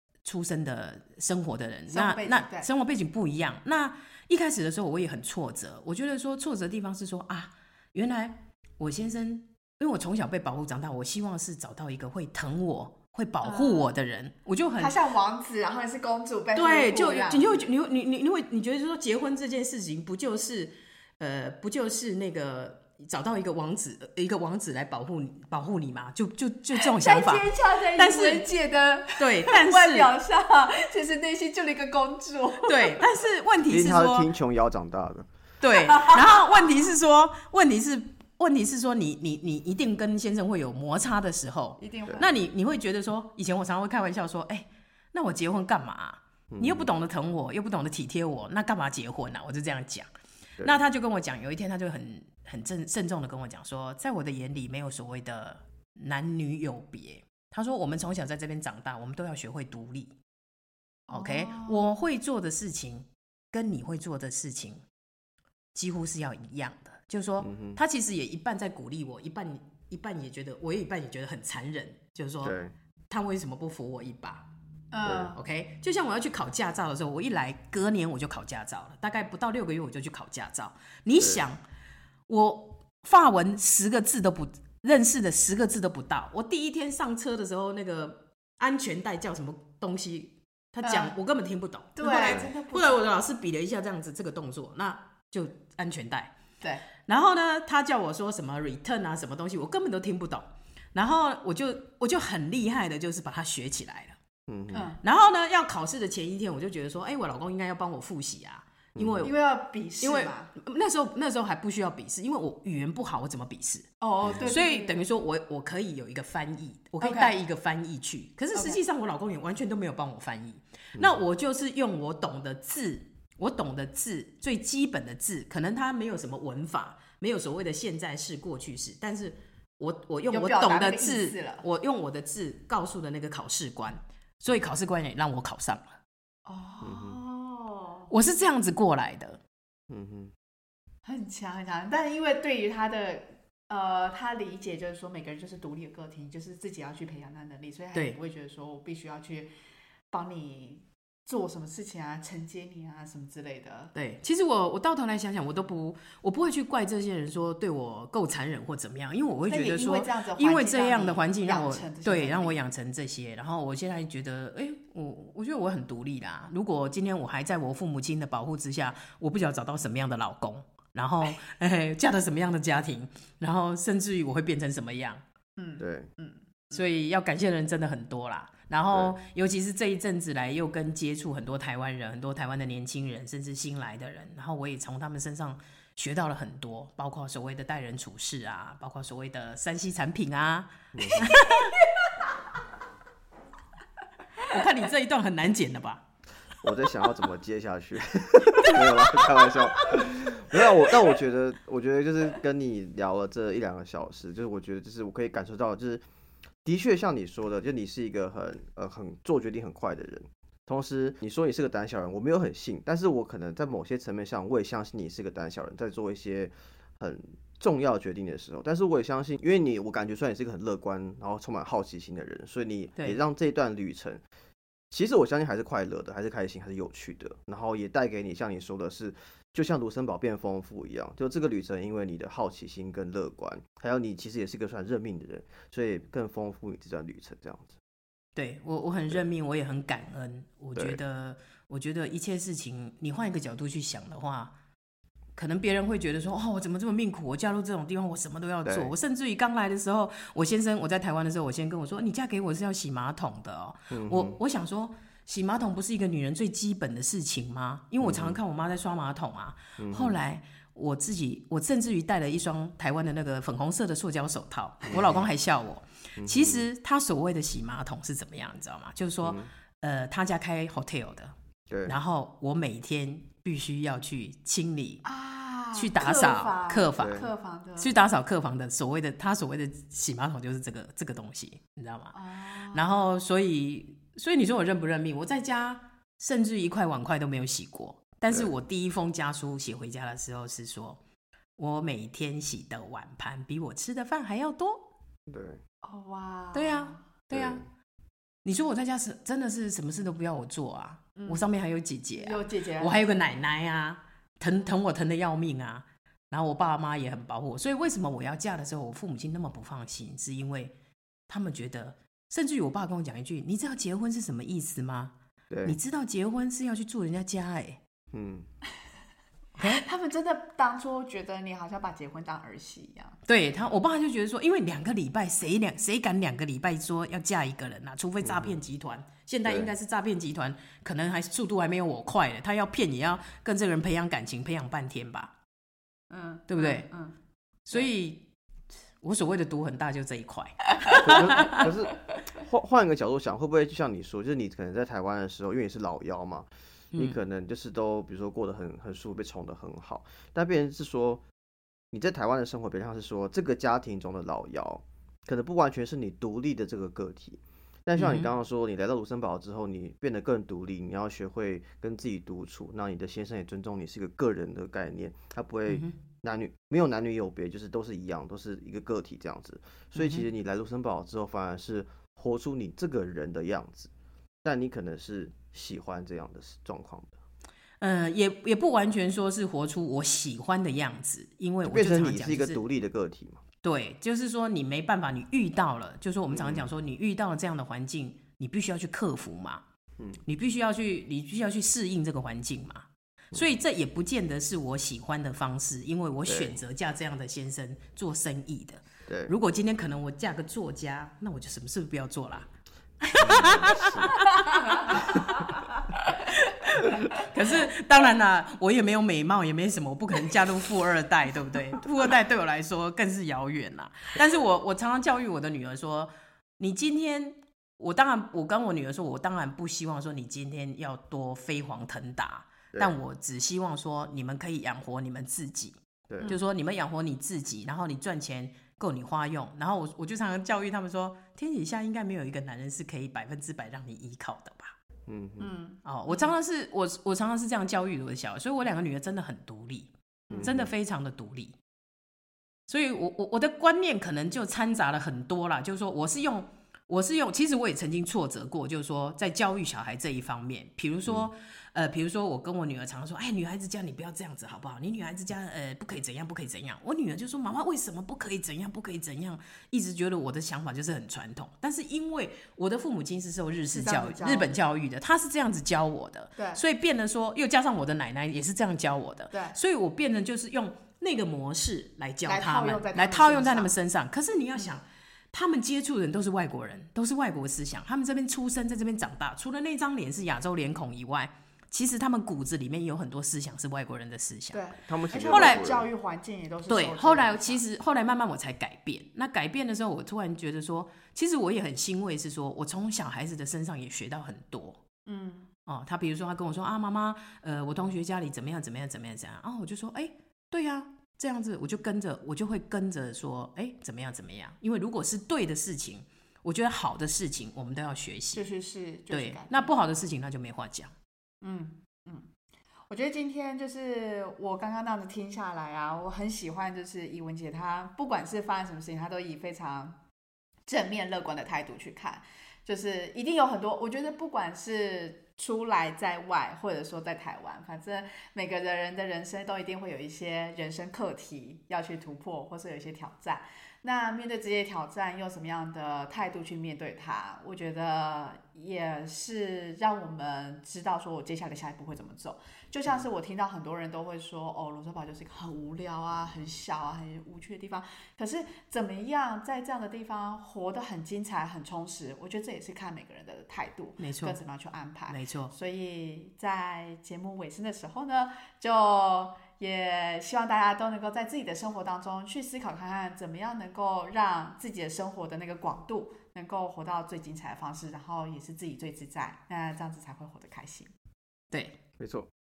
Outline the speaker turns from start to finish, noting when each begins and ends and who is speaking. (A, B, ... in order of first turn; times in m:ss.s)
0:00.2-0:14.9 A
0:01.9-0:02.7 B
0:13.4-0:13.9 B
0:14.8-0:17.7 B
0:16.5-0:28.4 A
0:26.8-0:33.0 B
0:29.2-0:30.1 A
0:32.6-0:34.3 A
0:33.7-0:35.3 C
0:35.6-0:50.1 A
0:41.8-0:42.3 B
0:46.5-0:46.9 C
0:50.6-1:00.1 A
1:01.1-1:01.9 B
1:01.1-1:04.8 A
1:05.7-1:12.6 A
1:07.4-1:07.8 C
1:12.4-1:12.7 C
1:13.1-1:14.4 A
1:14.9-1:15.4 B
1:15.0-1:21.6 A
1:21.2-1:21.4 C
1:22.3-1:36.3 A
1:30.8-1:31.1 B
1:32.0-1:33.0 B
1:37.0-1:44.2 A
1:44.5-1:44.8 C
1:44.7-1:45.0 B
1:45.0-1:49.3 A
1:48.9-1:49.3 C
1:49.2-1:50.5 B
1:50.0-1:53.9 A
1:54.0-1:55.0 B
1:54.4-2:16.0 A
1:57.0-1:57.4 B
1:58.5-1:58.8 B
2:10.3-2:11.6 B
2:16.4-2:18.1 B
2:16.8-2:17.2 C
2:18.1-2:19.4 A
2:19.9-2:20.3 C
2:21.0-2:29.5 B
2:27.9-2:28.2 A
2:30.1-2:33.9 B
2:33.9-2:55.2 A
2:39.5-2:42.6 B
2:55.6-2:56.8 B
2:55.8-2:56.1 C
2:56.7-3:11.7 A
3:10.9-3:11.3 C
3:14.4-3:16.0 A
3:16.6-3:26.0 C
3:26.6-3:44.2 C
3:44.9-3:57.8 C
3:58.3-4:04.5 A
4:05.4-4:35.0 A
4:08.6-4:08.9 C
4:13.9-4:14.4 C
4:18.0-4:18.4 C
4:19.8-4:20.2 C
4:24.9-4:25.2 C
4:26.2-4:26.7 C
4:29.2-4:29.5 C
4:31.7-4:32.0 C
4:35.0-4:38.0 B
4:35.7-4:37.2 A
4:37.0-4:37.3 C
4:37.8-4:42.2 A
4:42.1-4:43.0 B
4:42.7-4:51.0 A
4:51.6-4:54.8 A
4:55.3-4:55.6 C
4:55.8-4:57.1 B
4:56.5-4:57.6 A
4:57.3-4:57.6 C
4:58.4-5:10.7 A
5:01.2-5:01.4 B
5:02.1-5:03.1 B
5:11.3-5:15.1 A
5:15.5-5:15.8 C
5:15.6-5:17.8 A
5:18.1-5:18.5 C
5:19.6-5:19.8 A
5:19.6-5:23.2 B
5:23.2-5:35.3 A
5:28.2-5:28.6 C
5:29.4-5:29.7 C
5:36.1-5:37.2 B
5:36.5-5:36.9 A
5:37.6-5:38.2 A
5:39.0-5:41.6 A
5:41.0-5:51.2 C
5:51.9-6:13.9 C
5:58.0-5:58.3 A
6:05.7-6:05.9 A
6:10.0-6:10.2 A
6:14.4-6:17.2 C
6:17.8-6:22.6 A
6:21.6-6:23.4 C
6:23.6-6:29.6 A
6:26.3-6:26.7 C
6:30.2-6:42.5 A
6:36.3-6:36.6 C
6:39.1-6:39.3 C
6:43.0-6:45.4 A
6:43.2-6:44.1 C
6:46.0-7:14.8 A
7:06.1-7:06.4 C
7:15.1-7:15.5 C
7:15.4-7:16.3 B
7:15.8-7:21.6 A
7:20.3-7:20.7 C
7:22.7-8:04.6 A
7:43.7-7:44.6 B
7:46.4-7:46.6 B
7:49.3-7:49.6 B
7:52.2-7:53.7 B
8:04.5-8:07.6 B
8:04.9-8:05.9 C
8:05.3-8:05.6 A
8:06.7-8:14.8 A
8:15.0-8:15.5 B
8:15.6-8:28.5 A
8:28.3-8:29.7 B
8:29.1-8:30.9 A
8:31.4-8:32.3 B
8:32.9-8:40.0 B
8:40.7-9:30.9 B
9:14.0-9:14.4 A
9:15.1-9:15.5 A
9:31.5-9:31.8 A
9:32.0-9:32.3 C